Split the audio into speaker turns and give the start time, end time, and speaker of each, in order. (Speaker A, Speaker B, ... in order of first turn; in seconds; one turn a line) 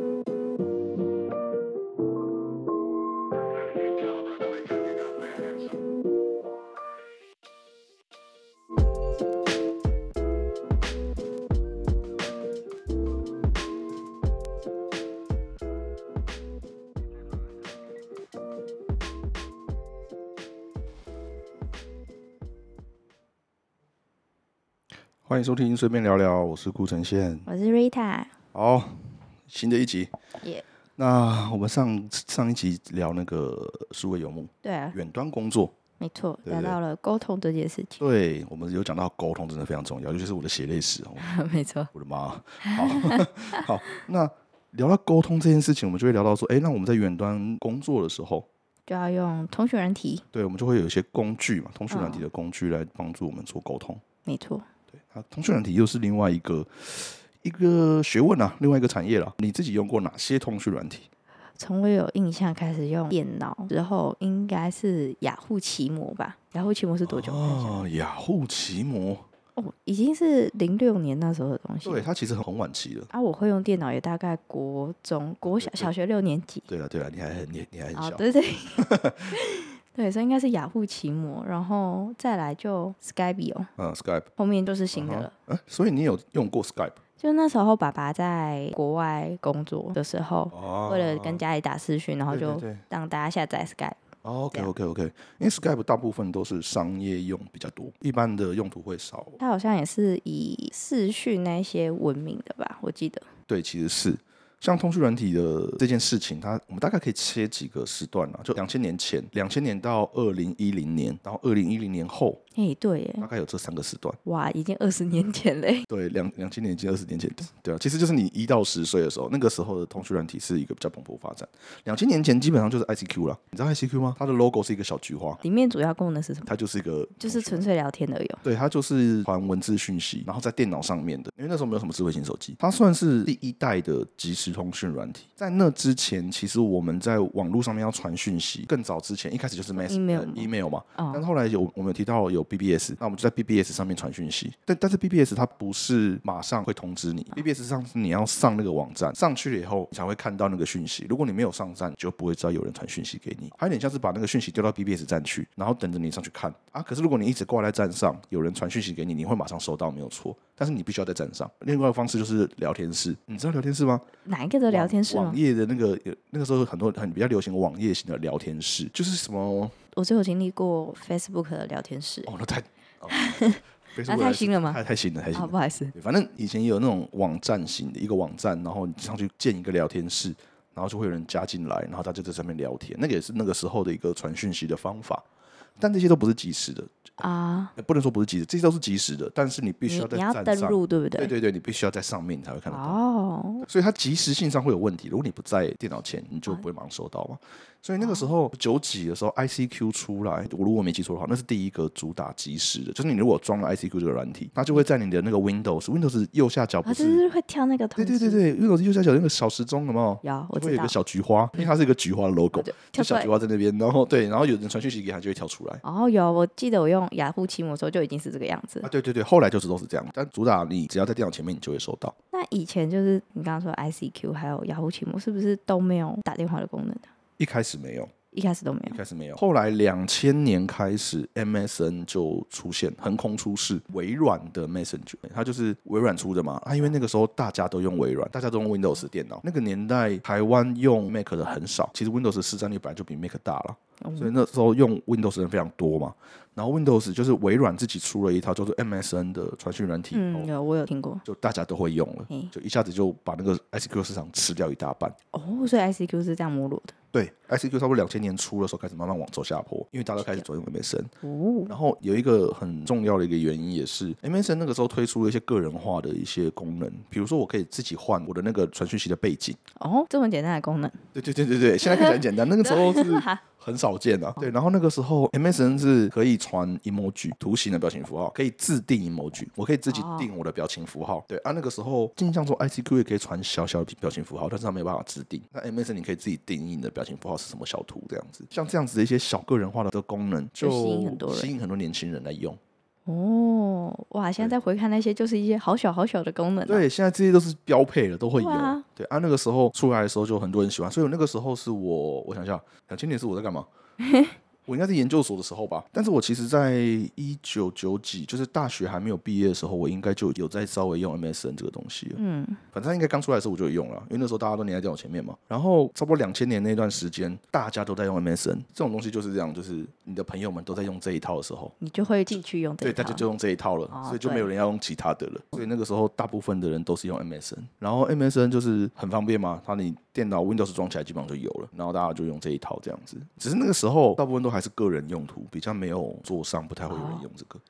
Speaker A: 25.3-27.5
Speaker B: 27.5-28.3
Speaker A: 28.5-30.1
Speaker A: 31.0-35.8
Speaker B: 34.6-35.0
Speaker B: 36.0-38.0
Speaker A: 36.5-36.8
Speaker A: 38.0-41.3
Speaker B: 41.2-41.9
Speaker A: 41.9-48.5
Speaker B: 42.6-43.7
Speaker B: 48.9-50.2
Speaker A: 50.3-54.0
Speaker B: 51.9-52.3
Speaker B: 54.2-54.6
Speaker A: 54.9-61.1
Speaker B: 61.6-67.8
Speaker A: 67.0-69.2
Speaker B: 69.6-72.1
Speaker A: 71.8-73.1
Speaker B: 73.1-76.7
Speaker A: 75.5-75.9
Speaker A: 76.7-78.2
Speaker B: 78.0-83.7
Speaker A: 78.8-79.4
Speaker A: 83.8-84.3
Speaker B: 84.4-85.3
Speaker A: 84.9-87.0
Speaker B: 87.2-94.0
Speaker A: 90.5-91.4
Speaker A: 92.3-92.8
Speaker A: 94.2-99.4
Speaker B: 99.4-103.3
Speaker A: 103.5-112.4
Speaker B: 112.5-113.3
Speaker A: 113.2-114.2
Speaker B: 114.2-115.9
Speaker A: 115.9-125.4
Speaker B: 125.4-126.5
Speaker A: 126.5-127.7
Speaker B: 127.2-128.4
Speaker A: 128.4-164.1
Speaker B: 139.8-141.2
Speaker B: 164.2-165.4
Speaker A: 164.7-169.7
Speaker B: 169.9-172.3
Speaker A: 172.3-173.4
Speaker B: 173.1-174.8
Speaker A: 173.9-185.2
Speaker B: 175.3-175.9
Speaker A: 185.8-187.1
Speaker B: 187.2-187.7
Speaker A: 187.8-193.0
Speaker B: 189.9-191.3
Speaker B: 192.7-193.7
Speaker A: 193.7-207.2
Speaker B: 198.0-198.3
Speaker B: 206.8-208.4
Speaker A: 208.0-215.8
Speaker B: 210.2-210.9
Speaker B: 212.6-213.3
Speaker B: 215.8-218.9
Speaker A: 218.8-222.2
Speaker B: 222.3-227.1
Speaker A: 227.4-228.1
Speaker B: 228.3-229.0
Speaker A: 228.9-250.5
Speaker B: 244.0-244.3
Speaker B: 250.1-251.2
Speaker A: 251.2-255.2
Speaker B: 255.3-256.9
Speaker A: 257.1-261.1
Speaker B: 260.2-260.5
Speaker B: 261.2-261.7
Speaker A: 261.7-269.6
Speaker B: 269.8-271.0
Speaker A: 271.1-292.6
Speaker B: 271.8-273.4
Speaker B: 279.9-280.3
Speaker B: 290.6-291.5
Speaker B: 293.1-296.9
Speaker A: 296.7-303.7
Speaker B: 298.4-298.8
Speaker B: 304.0-304.4
Speaker A: 304.7-312.2
Speaker B: 312.2-312.6
Speaker A: 312.7-321.8
Speaker B: 321.8-323.3
Speaker A: 322.8-337.6
Speaker B: 323.9-324.5
Speaker B: 336.9-337.2